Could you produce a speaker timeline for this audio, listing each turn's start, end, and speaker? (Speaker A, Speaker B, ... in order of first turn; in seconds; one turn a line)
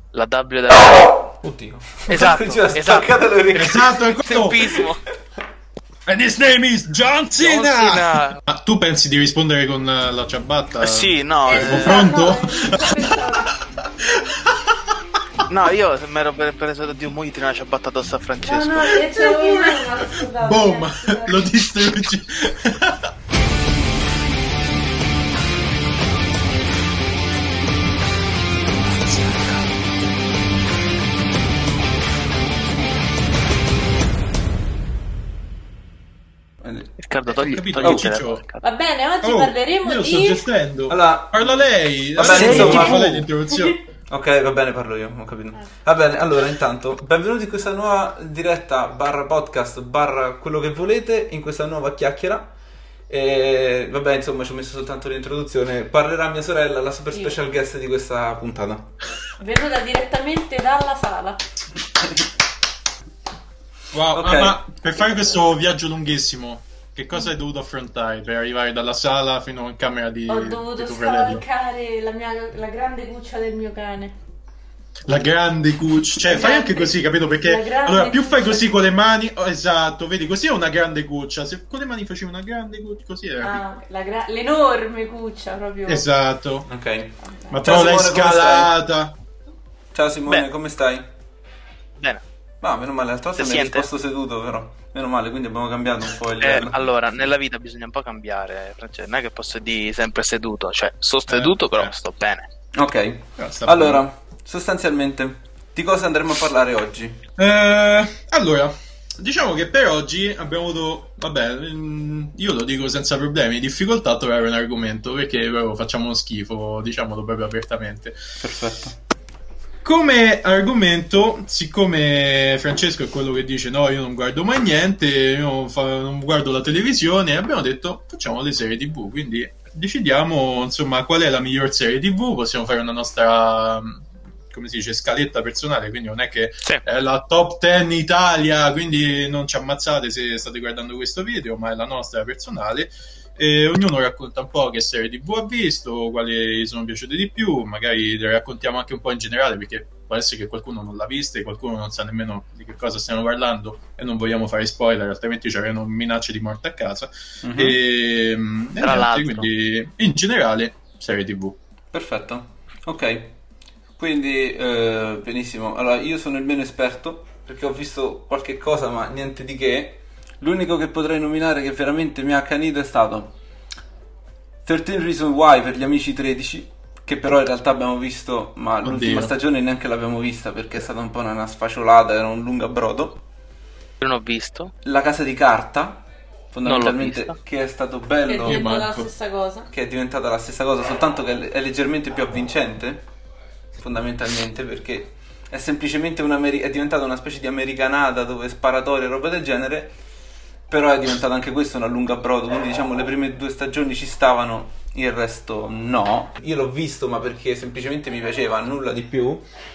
Speaker A: 0.1-1.3
Speaker B: 1.4-4.0
Speaker A: 2.1-5.0
Speaker C: 3.5-4.8
Speaker C: 6.1-15.0
Speaker A: 7.4-8.4
Speaker A: 10.8-12.2
Speaker D: 11.4-13.6
Speaker A: 15.5-19.0
Speaker D: 18.4-21.4
Speaker C: 19.0-23.1
Speaker B: 36.6-36.9
Speaker A: 37.0-38.6
Speaker C: 37.3-38.4
Speaker B: 37.8-38.1
Speaker D: 38.6-40.5
Speaker C: 39.2-43.8
Speaker B: 40.9-43.2
Speaker A: 42.2-43.0
Speaker D: 42.3-43.8
Speaker B: 44.1-52.5
Speaker B: 53.1-58.9
Speaker D: 59.4-61.4
Speaker C: 63.9-71.4
Speaker B: 64.1-64.6
Speaker D: 70.3-74.1
Speaker C: 75.1-83.6
Speaker D: 76.2-78.7
Speaker D: 83.4-86.0
Speaker C: 85.9-86.7
Speaker B: 86.7-88.7
Speaker D: 87.2-87.6
Speaker C: 87.5-89.2
Speaker B: 89.9-91.1
Speaker B: 92.6-96.8
Speaker A: 93.4-93.9
Speaker A: 96.4-102.5
Speaker C: 101.3-101.9
Speaker B: 102.8-107.2
Speaker C: 103.4-104.0
Speaker C: 107.4-118.2
Speaker B: 118.4-119.0
Speaker C: 119.8-161.6
Speaker B: 157.4-157.8
Speaker A: 158.8-159.5
Speaker B: 161.9-163.4
Speaker B: 164.0-173.3
Speaker B: 174.7-183.2
Speaker C: 178.8-179.3
Speaker A: 184.0-184.7
Speaker B: 184.8-188.7
Speaker A: 186.6-187.4
Speaker D: 188.3-189.7
Speaker C: 188.4-189.1
Speaker B: 189.7-193.0
Speaker B: 193.8-199.9
Speaker B: 200.7-209.5